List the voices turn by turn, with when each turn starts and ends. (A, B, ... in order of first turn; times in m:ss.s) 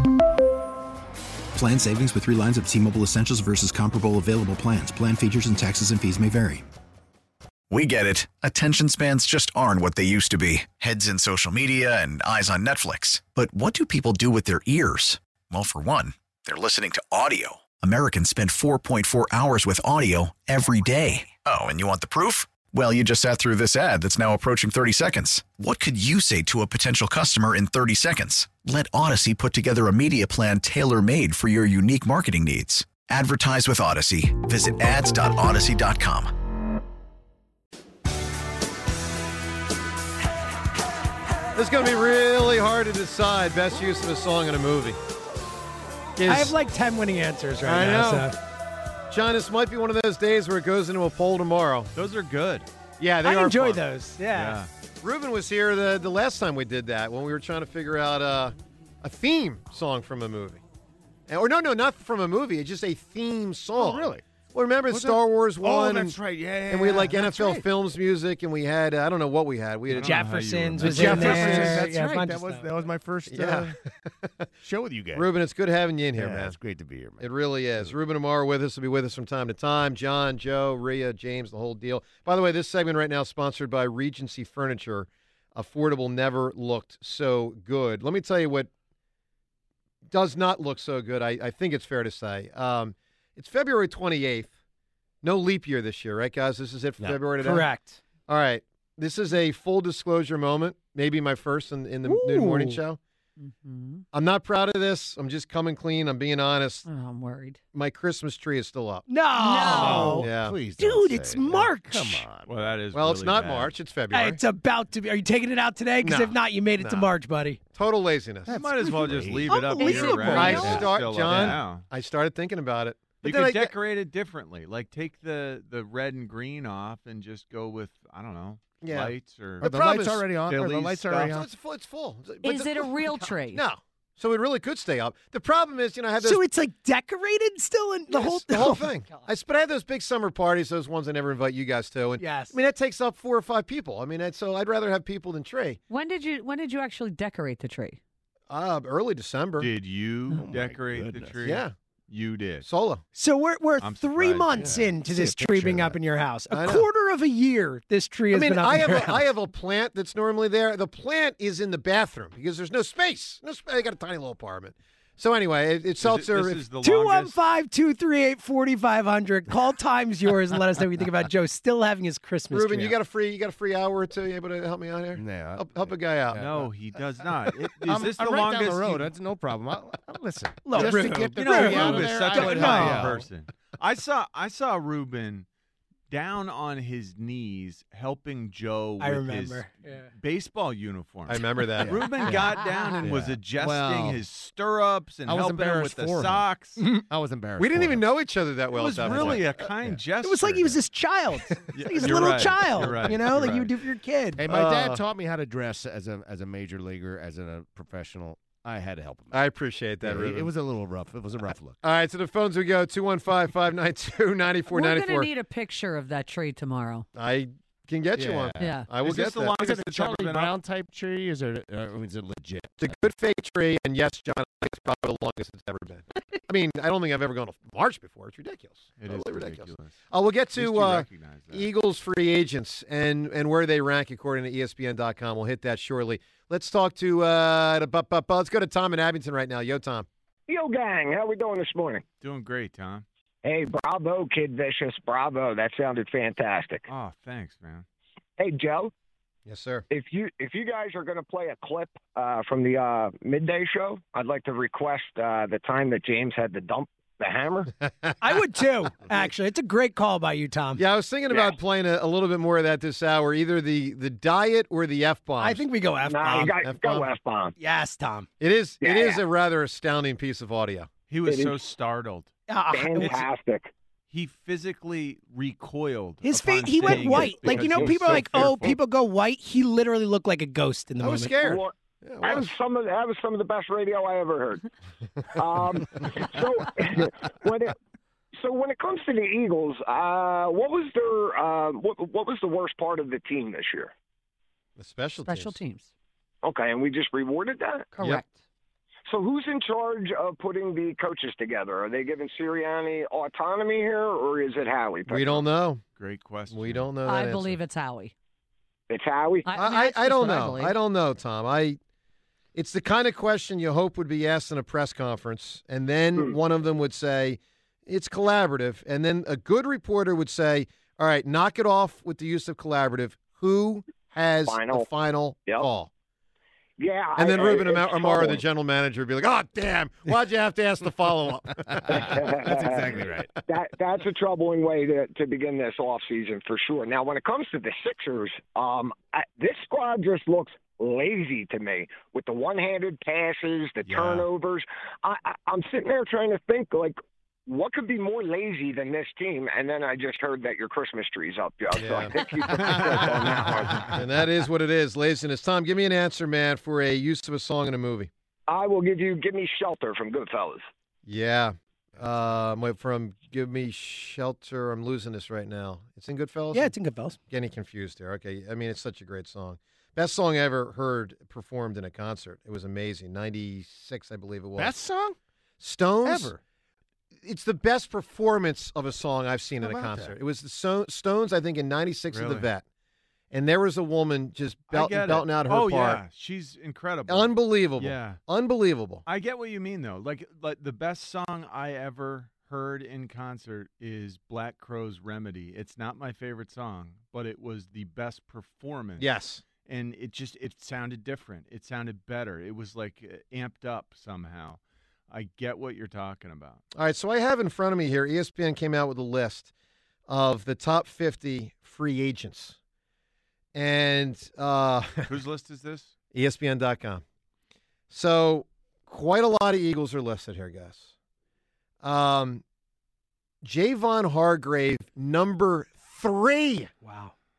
0:01.6-0:06.6 A
0:07.7-0:36.3 B
0:41.6-0:45.0 C
0:46.2-0:46.6 C
0:46.3-0:48.4 D
0:47.6-0:48.4 C
0:49.1-0:51.9 C
0:52.0-0:52.7 E
0:53.0-0:53.8 C
0:53.2-0:54.6 D
0:54.3-0:54.7 E
0:55.0-1:00.6 C
1:01.3-1:06.2 C
1:03.8-1:04.2 F
1:04.9-1:07.7 F
1:06.7-1:10.2 C
1:09.9-1:11.7 E
1:10.0-1:12.7 D
1:10.8-1:13.8 F
1:10.9-1:11.8 C
1:13.3-1:14.5 C
1:14.6-1:15.3 F
1:15.2-1:16.6 C
1:16.2-1:17.9 F
1:17.2-1:28.7 C
1:30.0-1:34.5 C
1:35.2-1:37.7 C
1:37.4-1:38.0 D
1:38.3-1:43.0 C
1:42.0-1:42.8 D
1:43.4-1:44.0 G
1:44.1-1:46.9 C
1:46.8-1:47.6 G
1:47.7-1:49.1 C
1:49.1-1:52.2 D
1:49.4-1:50.2 G
1:49.7-1:52.7 F
1:49.8-1:50.6 C
1:52.5-1:53.7 E
1:52.9-1:54.4 C
1:54.1-1:57.6 D
1:56.0-1:57.1 C
1:57.7-1:58.6 C
1:58.5-1:59.6 F
1:58.5-2:01.9 E
1:59.5-2:00.8 D
1:59.8-2:00.8 G
2:00.3-2:03.7 C
2:00.7-2:01.6 F
2:03.2-2:09.7 E
2:08.8-2:10.2 C
2:09.6-2:11.4 F
2:10.5-2:11.4 E
2:11.2-2:16.4 C
2:12.4-2:13.6 G
2:16.2-2:19.2 D
2:18.1-2:25.8 C
2:22.2-2:22.6 D
2:25.9-2:28.0 G
2:28.5-2:29.7 C
2:29.6-2:32.7 E
2:30.3-2:31.4 F
2:31.4-2:31.7 C
2:32.6-2:33.0 C
2:33.2-2:39.2 D
2:33.8-2:34.7 E
2:34.6-2:36.0 F
2:36.5-2:36.9 C
2:38.3-2:46.6 C
2:46.0-2:47.4 E
2:46.8-2:53.0 D
2:52.5-2:56.4 C
2:55.2-2:56.7 F
2:56.4-2:59.1 E
2:57.5-3:03.2 F
3:00.6-3:03.2 D
3:00.8-3:05.5 E
3:06.1-3:16.8 E
3:09.0-3:10.1 D
3:11.3-3:12.0 C
3:11.8-3:12.4 F
3:12.1-3:13.1 G
3:13.0-3:14.2 F
3:15.3-3:16.5 F
3:17.0-3:18.1 F
3:17.6-3:19.5 C
3:18.7-3:20.8 E
3:19.0-3:20.0 F
3:20.2-3:24.4 D
3:21.7-3:23.6 E
3:23.1-3:23.6 C
3:24.4-3:29.4 F
3:24.4-3:25.0 C
3:29.3-3:30.5 C
3:30.0-3:31.8 F
3:31.8-3:35.3 C
3:34.7-3:37.1 G
3:37.2-3:39.6 C
3:38.2-3:38.7 F
3:38.6-3:38.9 G
3:39.0-3:40.6 E
3:39.5-3:43.0 F
3:42.8-4:00.1 C
3:49.0-3:50.0 E
3:50.6-3:51.7 E
4:00.5-4:02.0 H
4:02.2-4:03.0 E
4:03.4-4:06.9 H
4:06.9-4:07.9 E
4:08.4-4:08.9 H
4:09.5-4:09.8 C
4:09.9-4:17.7 H
4:18.2-4:20.8 D
4:20.8-4:25.6 C
4:21.3-4:21.6 H
4:25.4-4:26.6 D
4:26.0-4:27.6 H
4:26.6-4:27.1 C
4:27.6-4:28.3 D
4:28.4-4:30.9 C
4:28.8-4:29.2 H
4:31.1-4:32.3 E
4:31.3-4:31.6 H
4:32.5-4:33.2 D
4:32.7-4:33.7 H
4:34.1-4:38.8 E
4:36.2-4:41.3 D
4:37.8-4:38.1 C
4:41.0-4:42.5 C
4:41.4-4:44.6 H
4:45.3-4:47.8 H
4:48.4-4:53.9 H
4:54.8-4:55.6 C
4:55.2-4:55.9 G
4:56.4-4:57.9 H
4:57.9-4:58.4 G
4:59.1-5:05.4 H
5:05.1-5:05.8 C
5:06.0-5:06.9 E
5:06.5-5:07.6 C
5:07.0-5:08.1 G
5:08.9-5:09.5 H
5:09.5-5:10.8 G
5:09.5-5:11.8 C
5:12.6-5:25.9 C
5:24.5-5:24.9 H
5:26.8-5:28.4 H
5:27.2-5:33.1 C
5:31.7-5:33.3 F
5:31.9-5:53.9 H
5:43.8-5:44.3 F
5:51.7-5:58.1 C
5:52.8-5:53.9 F
5:58.5-6:00.7 H
6:01.1-6:06.7 C
6:06.5-6:07.2 D
6:07.3-6:14.7 C
6:14.6-6:15.2 F
6:15.6-6:16.4 C
6:16.0-6:16.4 F
6:17.2-6:22.6 C
6:19.6-6:20.2 F
6:22.1-6:22.5 E
6:23.3-6:26.0 C
6:24.7-6:28.2 E
6:27.1-6:29.0 C
6:29.1-6:39.1 E
6:39.0-6:39.4 C
6:39.6-6:46.6 E
6:46.8-6:49.5 C
6:50.1-6:52.6 C
6:53.6-6:55.1 C
6:55.1-6:55.9 E
6:56.1-6:57.0 C
6:57.9-7:00.9 C
7:01.8-7:02.4 C
7:03.4-7:06.7 C
7:06.8-7:07.1 D